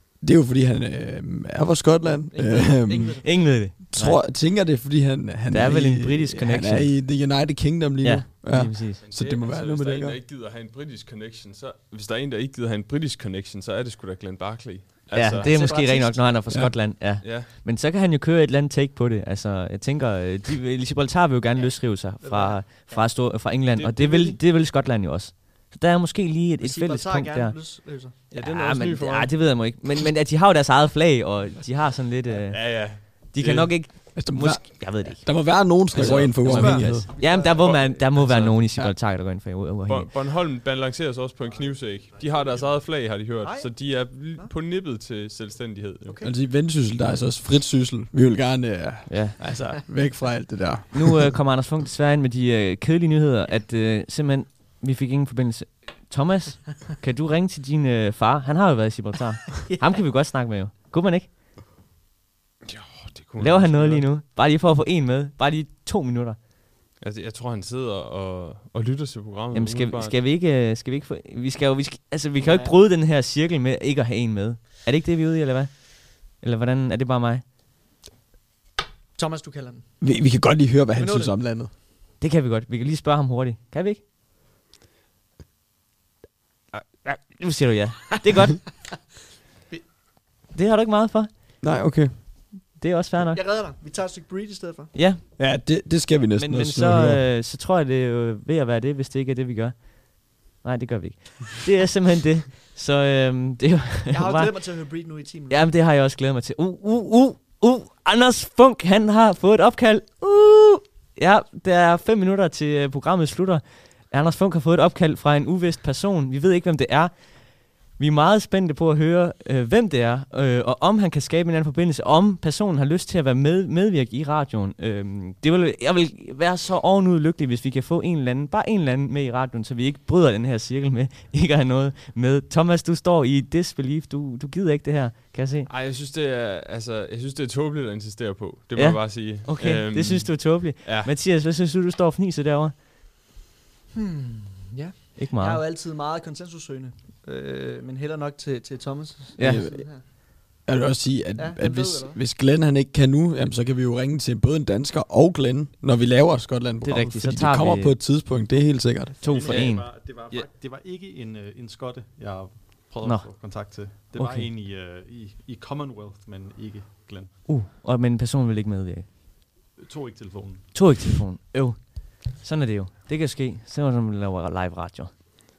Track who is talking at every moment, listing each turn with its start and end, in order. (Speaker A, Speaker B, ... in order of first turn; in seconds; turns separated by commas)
Speaker A: 0.2-10.2, Speaker B: 2.1-3.5, Speaker C: 3.2-4.2, Speaker C: 5.5-7.3, Speaker C: 8.0-9.0, Speaker D: 9.0-15.5, Speaker C: 15.1-40.1, Speaker B: 15.3-16.5, Speaker A: 16.5-16.9, Speaker D: 17.2-17.5, Speaker B: 21.6-23.2, Speaker D: 23.7-24.4, Speaker B: 26.6-28.3, Speaker D: 28.3-29.4, Speaker D: 32.4-33.7, Speaker A: 34.1-37.1, Speaker B: 36.0-37.9, Speaker D: 37.3-38.6, Speaker D: 39.9-46.2, Speaker E: 41.4-43.2, Speaker B: 43.4-44.5, Speaker B: 46.0-46.3, Speaker A: 46.2-51.4, Speaker C: 49.1-49.4, Speaker C: 50.9-61.3, Speaker B: 59.6-60.0, Speaker D: 62.6-64.1, Speaker C: 63.4-66.4, Speaker D: 67.0-70.2, Speaker C: 69.5-77.5, Speaker B: 72.4-72.8, Speaker B: 79.1-79.9, Speaker A: 80.0-81.7, Speaker B: 80.9-81.5, Speaker C: 82.2-84.0, Speaker C: 86.7-88.7, Speaker C: 90.5-91.6, Speaker A: 91.6-92.1, Speaker C: 92.7-93.4, Speaker B: 93.3-95.0, Speaker C: 94.9-95.2, Speaker A: 95.4-97.2, Speaker C: 96.3-135.7, Speaker B: 104.1-105.7, Speaker D: 135.7-141.1, Speaker C: 138.8-142.7, Speaker B: 143.9-150.1, Speaker C: 145.2-145.6, Speaker C: 149.4-149.7, Speaker A: 149.4-150.0, Speaker A: 150.6-159.2, Speaker B: 151.4-152.2, Speaker C: 156.8-158.0, Speaker C: 159.2-160.5, Speaker E: 159.2-167.3, Speaker C: 163.0-164.5, Speaker C: 167.4-169.1, Speaker E: 169.8-170.8, Speaker C: 170.7-175.1